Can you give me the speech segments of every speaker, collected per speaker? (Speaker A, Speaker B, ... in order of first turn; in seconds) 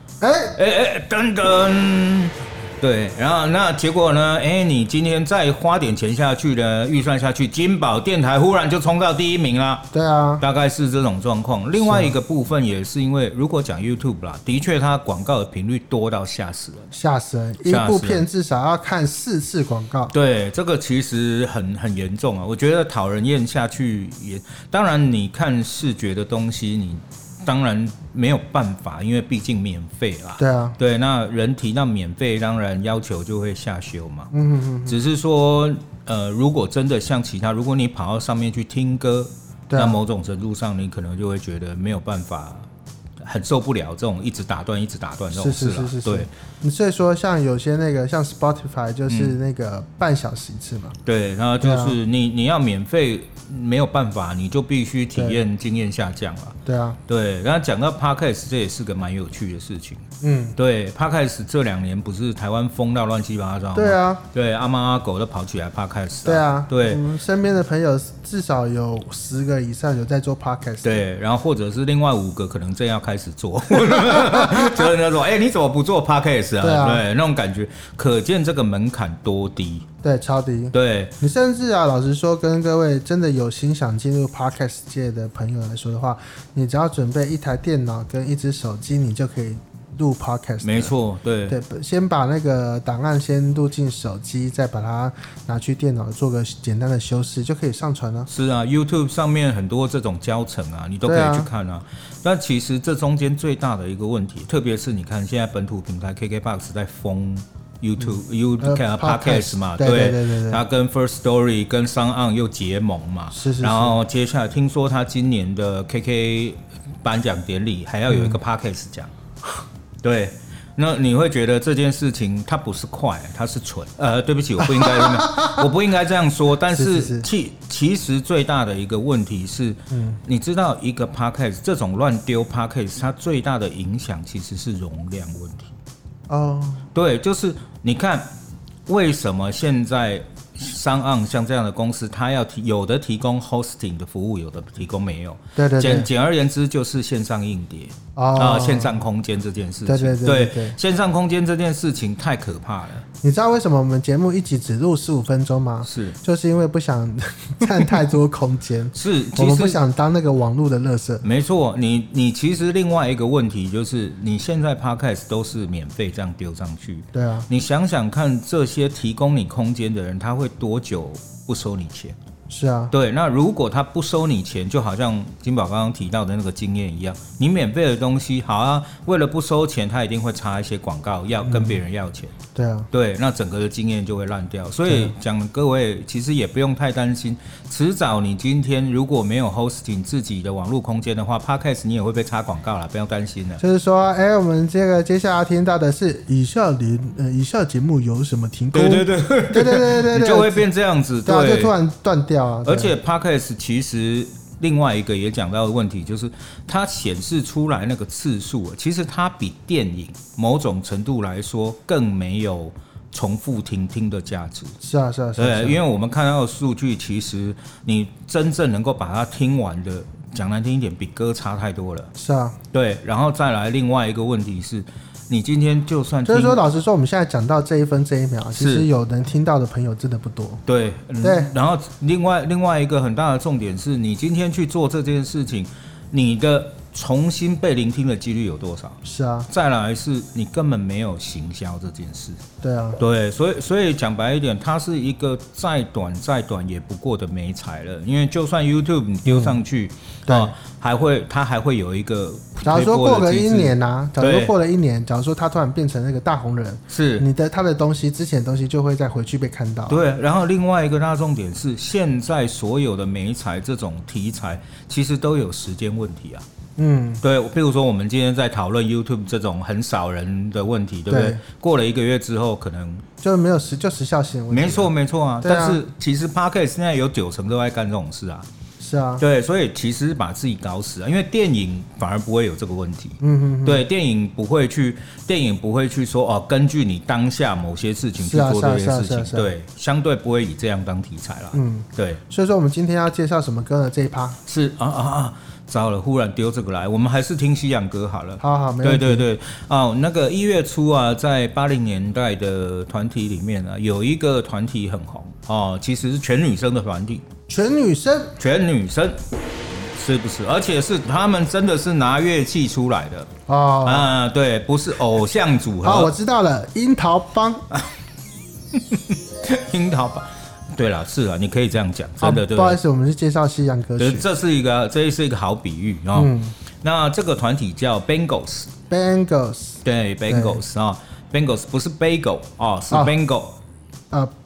Speaker A: 0.2-0.6, 9.9-10.4, 11.8-12.2, 16.9-20.1, 30.4-30.8, 34.3-35.0, 39.7-40.0, 45.3-51.0, 51.6-52.0, 55.1-55.4, 56.7-57.0, 60.2-60.6, 63.8-64.2, 66.2-71.0, 74.0-74.9, 76.6-77.0, 80.0-91.0, 91.5-98.3, 101.1-101.5, 108.0-110.6, 113.3-114.0, 118.1-118.4, 124.6-125.6, 126.7-127.3, 129.9-130.2, 136.3-136.9, 145.6-146.1, 148.2-149.0, 149.9-150.8, 153.2-161.2, 167.1-167.5, 172.5-172.9, 181.4-181.8, 182.6-182.9, 184.9-185.2, 193.6-200.7, 201.2-202.9, 214.8-215.8, 222.2-222.6, 226.3-230.6, 231.2-231.5, 239.0-239.5, 242.6-243.0, 249.3-249.6, 250.3-250.6, 252.6-260.0, 266.8-267.2, 271.1-271.4, 273.2-274.9, 275.4-275.8, 278.8-279.2, 283.2-283.8, 288.2-289.5, 291.5-294.4, 298.4-299.3, 307.5-308.3, 313.5-314.1, 315.8-317.6, 322.2-324.3, 326.1-326.6, 328.9-330.6
Speaker B: 0.5-9.9, 10.4-16.9, 17.7-18.3, 20.1-34.3, 34.9-42.7, 43.2-46.3, 49.1-49.4, 51.0-60.0, 60.6-67.0, 70.8-79.9, 80.7-81.2, 90.6-91.6, 98.3-119.1, 120.0-135.7, 136.9-138.3, 138.9-153.1, 155.8-156.2, 158.9-159.8, 161.2-172.2, 172.9-182.3, 182.9-193.6, 198.7-201.8, 202.7-214.8, 215.4-222.1, 222.7-226.6, 228.5-228.9, 230.7-242.4, 243.0-254.5, 256.9-257.3, 259.9-266.4, 267.2-273.0, 274.5-278.5, 279.2-292.2, 294.5-307.2, 308.4-313.3, 313.8-316.1, 318.7-322.8, 324.0-328.7, 329.8-333.6